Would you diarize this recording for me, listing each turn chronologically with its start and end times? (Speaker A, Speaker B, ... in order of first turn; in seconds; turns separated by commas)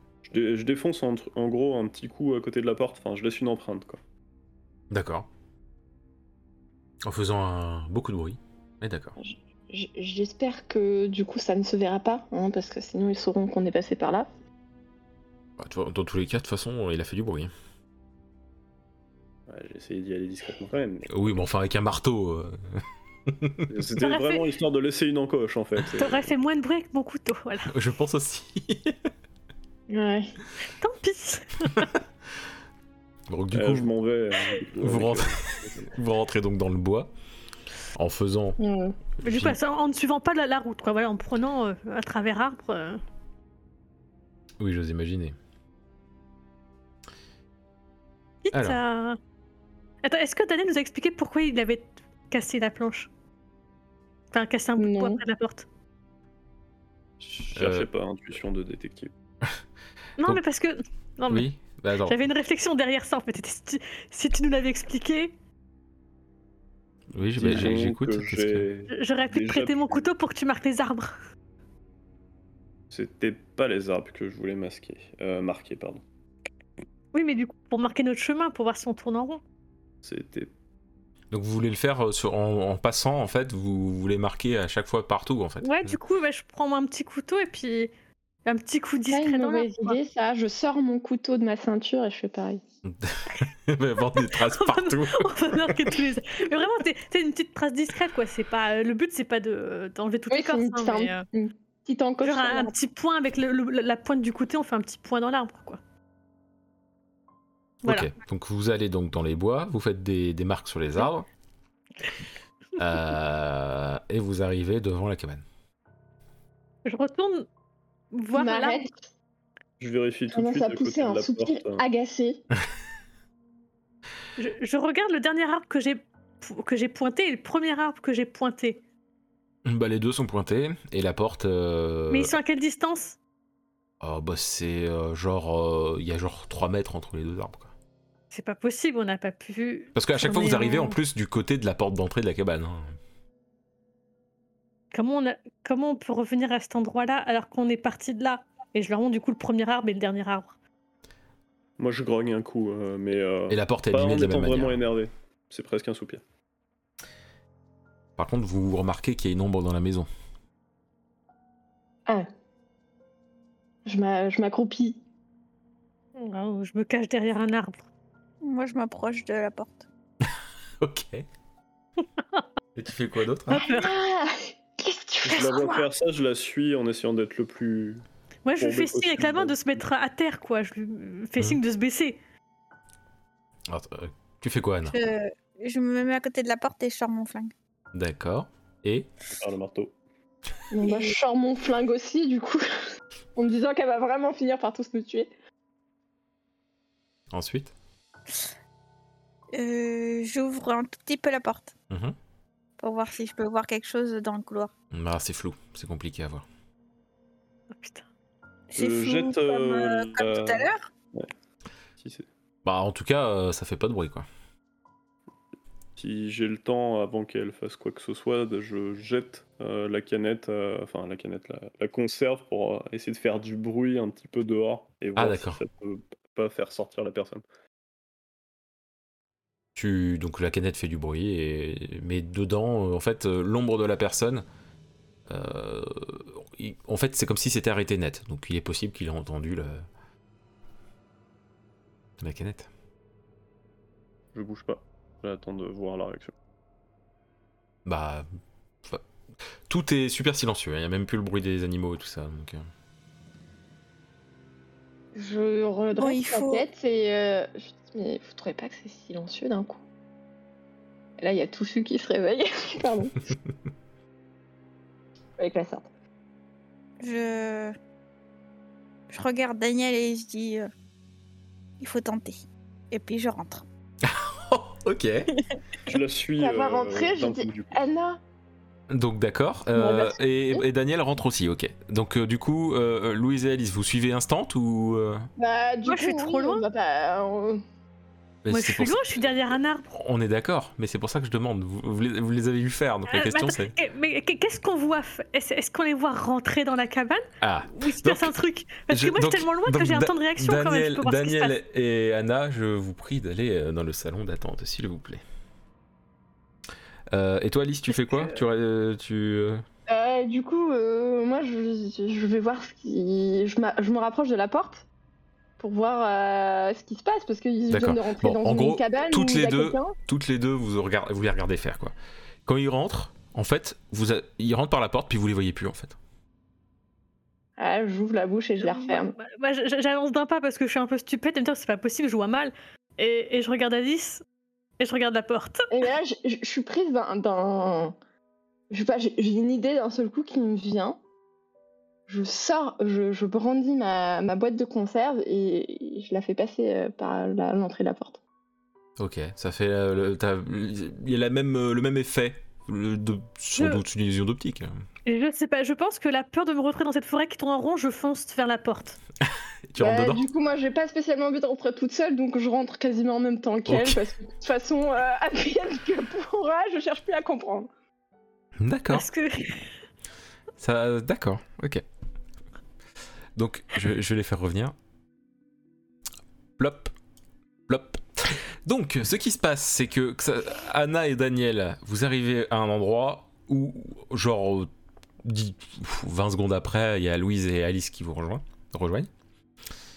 Speaker A: 0.2-4.0, Speaker B: 4.9-5.3, Speaker B: 7.0-9.2, Speaker C: 9.2-14.3, Speaker B: 15.6-17.5, Speaker A: 19.5-21.1, Speaker B: 21.1-23.7, Speaker A: 23.7-26.3, Speaker D: 24.0-24.4, Speaker D: 25.9-27.7, Speaker B: 27.7-29.1, Speaker C: 29.9-30.3, Speaker D: 30.6-31.9, Speaker B: 33.3-33.9, Speaker A: 33.5-35.9, Speaker B: 34.8-35.4, Speaker B: 35.9-37.1, Speaker B: 37.9-38.6, Speaker C: 38.6-39.0, Speaker B: 39.2-39.6, Speaker D: 39.2-43.0, Speaker B: 44.6-45.3, Speaker D: 48.4-49.2, Speaker B: 48.5-48.8, Speaker D: 50.0-53.1, Speaker D: 54.3-55.6, Speaker C: 54.8-55.2, Speaker A: 57.2-59.1, Speaker B: 57.5-57.9, Speaker D: 60.2-61.5, Speaker B: 61.3-62.2, Speaker D: 62.0-65.3, Speaker B: 67.1-68.7, Speaker A: 67.4-70.0, Speaker D: 68.9-71.1, Speaker A: 72.9-76.0, Speaker D: 77.1-79.4, Speaker A: 80.0-80.5, Speaker B: 81.3-86.0, Speaker D: 85.6-87.9, Speaker D: 88.4-90.0, Speaker C: 89.1-92.6, Speaker B: 92.8-96.0, Speaker D: 94.2-101.2, Speaker C: 100.3-102.7, Speaker D: 102.2-105.8, Speaker D: 107.8-108.1, Speaker B: 107.8-111.3, Speaker B: 112.8-115.4, Speaker D: 116.8-117.5, Speaker D: 118.1-118.8, Speaker C: 118.3-119.0, Speaker A: 119.8-121.8, Speaker C: 120.3-122.5, Speaker D: 124.4-128.8, Speaker B: 129.6-132.4, Speaker D: 132.1-133.2, Speaker B: 134.0-137.7, Speaker D: 138.3-141.0, Speaker B: 139.9-142.9, Speaker D: 144.9-150.5, Speaker A: 151.8-156.2, Speaker B: 153.5-154.8, Speaker B: 158.2-160.1, Speaker C: 163.8-165.0, Speaker D: 166.2-167.8, Speaker E: 168.4-169.9, Speaker B: 170.2-171.2, Speaker B: 172.7-173.6, Speaker D: 173.5-173.9, Speaker C: 173.5-175.8, Speaker A: 175.3-178.0, Speaker E: 175.3-175.8, Speaker D: 178.4-182.2, Speaker A: 178.6-179.7, Speaker B: 183.7-184.9, Speaker E: 184.9-187.5, Speaker B: 187.9-189.1, Speaker A: 189.3-189.9, Speaker C: 190.7-192.6, Speaker E: 190.8-191.1, Speaker C: 193.3-195.3, Speaker B: 197.3-197.7, Speaker E: 199.5-201.7, Speaker B: 201.9-202.2, Speaker E: 202.8-204.7, Speaker B: 204.9-206.4, Speaker D: 207.7-208.1, Speaker E: 208.7-210.9, Speaker A: 208.8-211.3, Speaker A: 212.0-212.3, Speaker B: 212.6-214.2, Speaker A: 215.9-227.4, Speaker B: 225.2-225.6, Speaker B: 229.8-234.4, Speaker B: 235.3-239.8, Speaker B: 242.2-242.7, Speaker A: 244.3-246.3, Speaker B: 247.8-248.3, Speaker B: 249.7-252.7, Speaker C: 255.1-259.8, Speaker E: 255.9-256.6, Speaker C: 261.2-263.2, Speaker C: 265.4-265.9, Speaker E: 267.0-267.7, Speaker E: 269.1-270.7, Speaker E: 271.8-273.6, Speaker B: 274.0-275.3, Speaker A: 275.9-277.8, Speaker C: 276.4-278.2, Speaker B: 278.9-285.3, Speaker C: 279.7-280.6, Speaker C: 285.4-287.6, Speaker D: 285.9-286.6, Speaker B: 288.4-289.2, Speaker D: 288.5-289.9, Speaker B: 289.9-293.7, Speaker D: 293.1-301.5, Speaker B: 297.4-298.4, Speaker B: 298.9-305.2, Speaker B: 307.1-309.6, Speaker D: 307.9-308.4, Speaker C: 309.9-314.9, Speaker C: 315.6-319.9, Speaker B: 317.7-325.9, Speaker C: 327.6-329.1, Speaker D: 328.6-334.2, Speaker D: 334.8-335.7, Speaker C: 335.7-337.9, Speaker C: 338.7-341.0, Speaker C: 342.1-348.2, Speaker B: 349.0-354.8, Speaker D: 353.6-353.8, Speaker D: 355.1-359.0, Speaker B: 359.2-360.2, Speaker C: 359.8-367.7, Speaker B: 363.7-364.0, Speaker B: 368.6-369.1, Speaker D: 368.9-369.7, Speaker B: 370.6-371.8, Speaker B: 373.4-374.7, Speaker B: 376.6-376.9, Speaker B: 377.7-384.7, Speaker B: 385.2-389.1